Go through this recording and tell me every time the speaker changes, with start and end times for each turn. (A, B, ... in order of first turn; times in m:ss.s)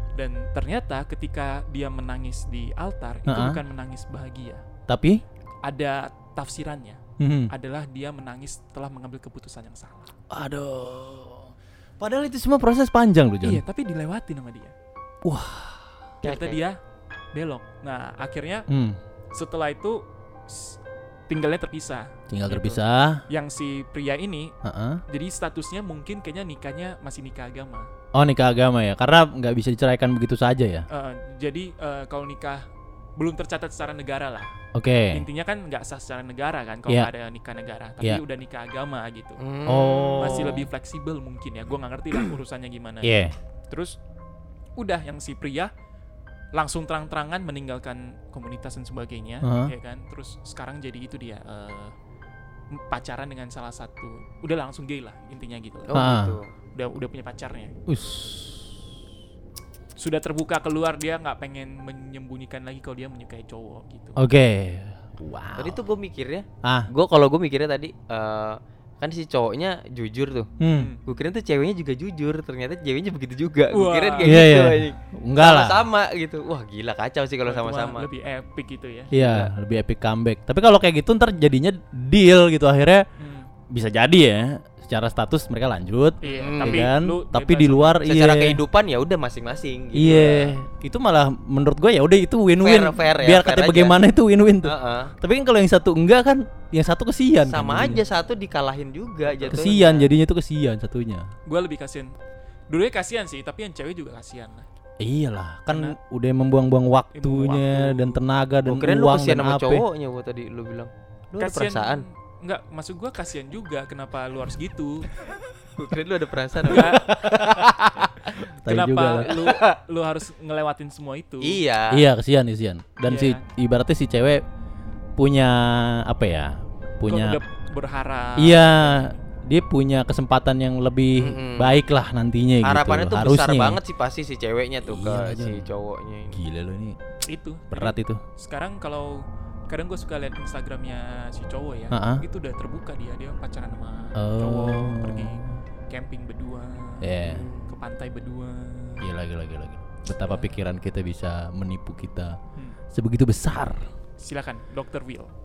0:00.2-0:04.6 A
0:03.3-0:03.6 B
0:04.9-0:05.2 B
0:05.6-0:10.1 A
0:07.2-0:07.5 B
0:10.3-0:13.6 B
0:13.4-0:14.7 A
0:15.2-0:16.1 B
0:16.2-0:16.6 C
0:16.2-0:16.8 A
0:17.3-0:18.7 A
0:18.7-0:19.0 B
0:19.3-0:20.8 A
0:21.3-0:24.5 A
0:22.3-0:23.2 B
0:24.6-0:25.0 B
0:25.1-0:27.9 A
0:28.1-0:30.9 B
0:30.9-0:34.5 A
0:34.8-0:35.3 B
0:35.1-0:39.4 A
0:39.4-0:40.7 C
0:39.7-0:40.6 B
0:40.2-0:44.0 A
0:43.0-0:43.4 B
0:44.8-0:45.7 A
0:46.5-0:52.0 A
0:49.4-0:49.7 B
0:52.7-0:56.0 A
0:55.9-0:56.5 C
0:55.9-0:56.4 B
0:56.7-0:57.8 A
0:57.9-0:58.8 B
1:00.0-1:04.2 A
1:04.2-1:05.8 B
1:05.6-1:10.5 C
1:06.6-1:06.9 B
1:10.6-1:10.9 B
1:10.7-1:11.0 A
1:11.1-1:18.1 C
1:13.7-1:14.5 A
1:14.2-1:15.9 B
1:17.4-1:19.1 A
1:19.1-1:23.0 B
1:19.1-1:19.5 C
1:23.2-1:23.5 A
1:23.7-1:28.6 B
1:26.2-1:28.0 A
1:26.2-1:26.9 C
1:28.0-1:30.6 C
1:30.0-1:38.0 B
1:32.6-1:34.0 C
1:34.6-1:35.1 C
1:37.4-1:40.1 C
1:39.3-1:39.8 A
1:39.5-1:41.3 B
1:41.5-1:42.2 A
1:42.7-1:44.7 A
1:45.0-1:49.8 B
1:45.7-1:46.0 A
1:47.1-1:48.2 A
1:48.6-1:52.0 C
1:51.4-1:55.3 A
1:55.8-1:58.4 C
1:56.7-1:57.1 A
1:56.7-1:57.6 B
1:58.4-2:01.6 A
1:58.6-1:59.4 B
1:59.3-1:59.7 C
2:01.4-2:02.0 C
2:01.9-2:04.4 B
2:03.0-2:03.4 A
2:05.2-2:07.4 B
2:07.1-2:09.2 A
2:08.4-2:13.8 B
2:11.2-2:11.8 C
2:12.6-2:16.4 C
2:14.8-2:15.7 B
2:16.3-2:17.0 B
2:17.3-2:29.1 A
2:17.7-2:18.2 B
2:21.9-2:22.2 B
2:24.2-2:25.6 B
2:27.0-2:27.5 B
2:27.3-2:27.6 C
2:29.0-2:32.4 B
2:30.2-2:30.6 A
2:32.9-2:33.9 B
2:34.2-2:35.3 A